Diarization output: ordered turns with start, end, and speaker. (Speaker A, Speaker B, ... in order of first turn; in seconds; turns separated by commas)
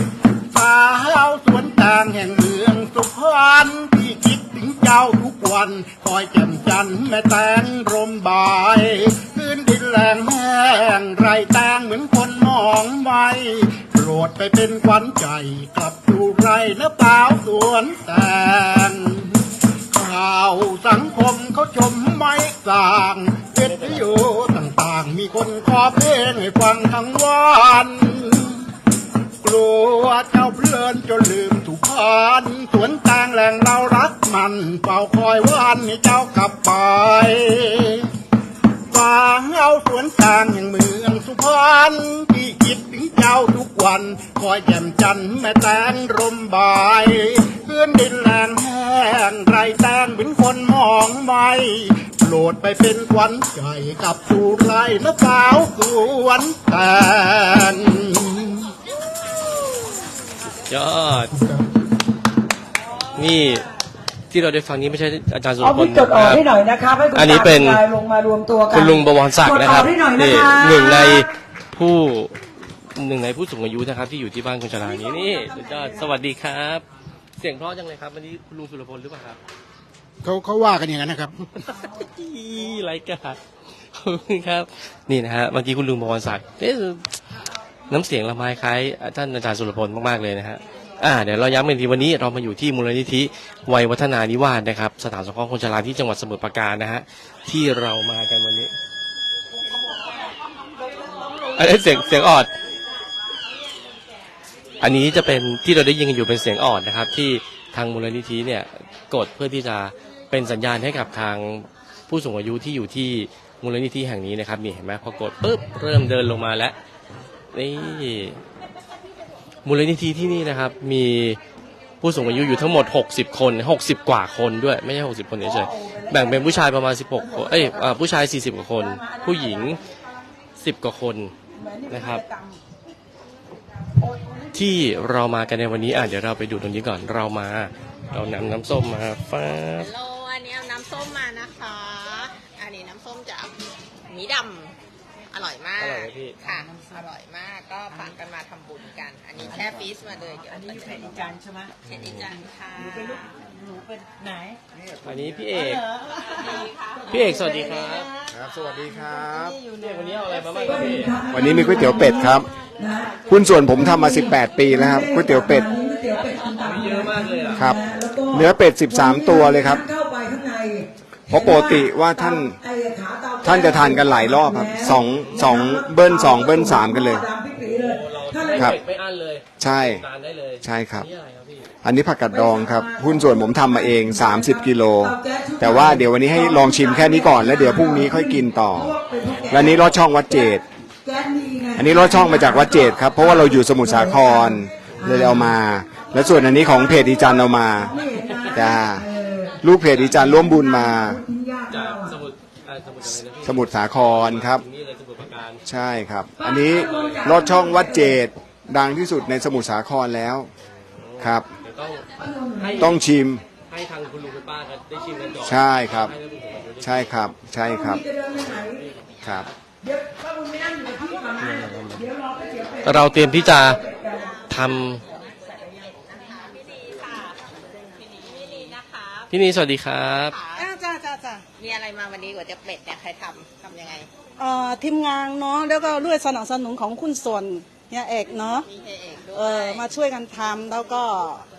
Speaker A: 0.5-28.7, Speaker B: 23.7-24.0, Speaker A: 29.4-38.1, Speaker A: 38.9-58.7, Speaker B: 60.7-61.3, Speaker B: 63.1-63.7, Speaker B: 64.3-66.4, Speaker C: 65.6-71.3, Speaker B: 67.1-67.9, Speaker B: 68.7-72.4, Speaker B: 72.9-76.8, Speaker C: 74.8-76.1, Speaker B: 77.4-79.4, Speaker A: 80.2-81.7, Speaker B: 81.7-83.4, Speaker B: 83.9-87.0, Speaker B: 87.9-98.7, Speaker B: 101.5-102.5, Speaker B: 104.8-116.8, Speaker B: 117.5-118.4, Speaker B: 119.6-121.4, Speaker B: 122.0-129.8, Speaker C: 125.5-126.5, Speaker C: 127.2-127.8, Speaker C: 128.8-129.8, Speaker B: 130.6-131.3, Speaker C: 131.6-132.6, Speaker B: 131.9-132.2, Speaker B: 134.5-139.9, Speaker D: 139.8-144.7, Speaker D: 145.3-153.3, Speaker B: 145.8-146.4, Speaker E: 149.4-149.7, Speaker C: 153.0-154.5, Speaker B: 155.0-155.8, Speaker D: 156.1-157.4, Speaker B: 157.1-158.1, Speaker E: 158.3-159.6, Speaker B: 159.6-161.3, Speaker C: 160.6-178.7, Speaker E: 161.3-162.5, Speaker E: 163.2-165.7, Speaker B: 166.5-167.7, Speaker E: 168.3-169.8, Speaker E: 171.3-172.6, Speaker E: 173.4-177.3, Speaker B: 177.7-181.7, Speaker E: 179.6-180.0, Speaker E: 180.6-181.1, Speaker E: 181.8-189.0, Speaker C: 182.3-195.5, Speaker B: 189.2-190.0, Speaker E: 189.5-190.6, Speaker E: 191.8-199.1, Speaker C: 196.1-199.6, Speaker B: 198.1-198.6, Speaker E: 199.6-201.2, Speaker B: 199.8-200.1, Speaker C: 200.1-202.1, Speaker B: 201.7-205.6, Speaker E: 203.4-204.6, Speaker E: 205.7-210.5, Speaker C: 206.4-208.2, Speaker B: 206.7-207.4, Speaker B: 210.7-213.0, Speaker E: 211.2-211.5, Speaker C: 212.2-212.8, Speaker E: 212.8-213.4, Speaker B: 213.7-217.2, Speaker E: 215.4-216.1, Speaker E: 216.8-218.0, Speaker C: 217.6-218.8, Speaker B: 218.4-219.5, Speaker E: 219.2-219.5, Speaker C: 219.8-224.3, Speaker B: 221.4-222.1, Speaker B: 222.8-223.8, Speaker D: 224.0-229.3, Speaker B: 224.5-225.0, Speaker B: 229.3-230.3, Speaker D: 230.2-230.7, Speaker F: 230.6-231.4, Speaker D: 231.6-234.1, Speaker F: 234.4-238.7, Speaker D: 238.5-239.9, Speaker F: 239.3-241.4